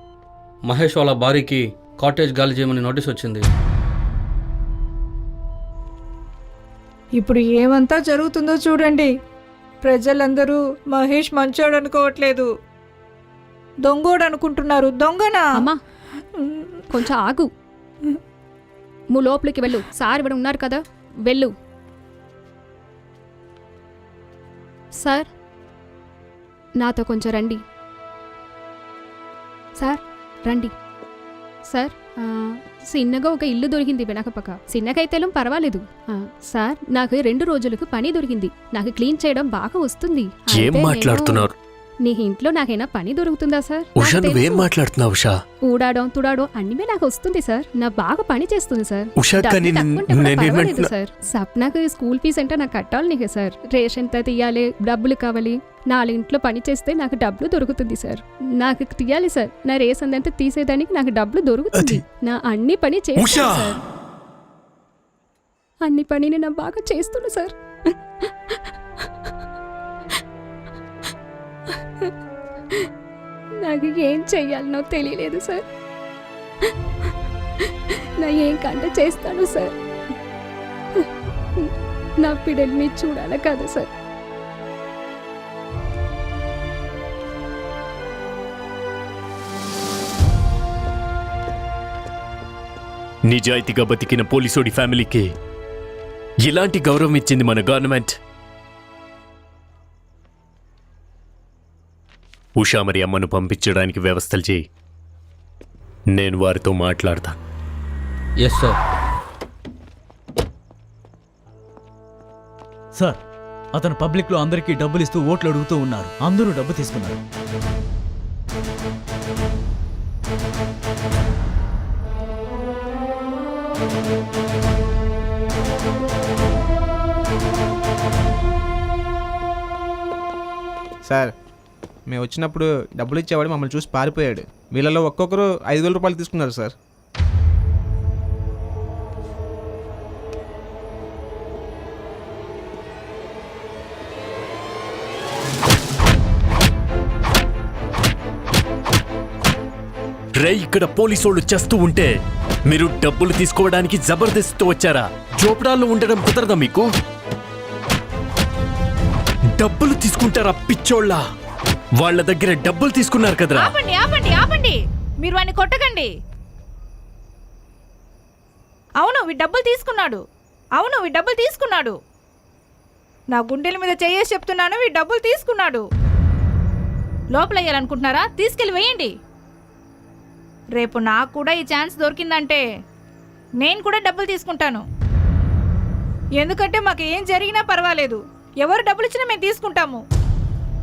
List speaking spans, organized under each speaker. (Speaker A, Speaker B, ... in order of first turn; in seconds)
Speaker A: 0.6-3.5, 108.4-108.8
Speaker B: 7.2-9.1, 9.8-12.5, 13.9-15.4, 16.4-16.8, 163.5-166.1, 169.0-170.2, 170.8-172.0, 173.3-175.8, 177.3-179.1, 180.8-182.6, 183.6-184.8, 186.4-190.0
Speaker C: 16.9-17.5, 19.1-21.5, 25.0-25.3, 26.8-27.6, 29.8-30.7, 31.7-41.5, 42.0-44.7, 45.6-63.8, 65.8-67.9, 73.6-75.6, 77.9-79.7, 81.6-83.9
Speaker D: 40.5-41.5, 44.0-45.4, 49.2-50.9, 63.2-63.8, 93.3-95.3, 96.4-98.1, 102.6-104.6, 106.1-107.4, 150.3-152.1, 152.7-156.8, 159.5-161.2, 162.0-163.7
Speaker E: 113.8-117.2
Speaker F: 131.1-131.3, 132.1-136.7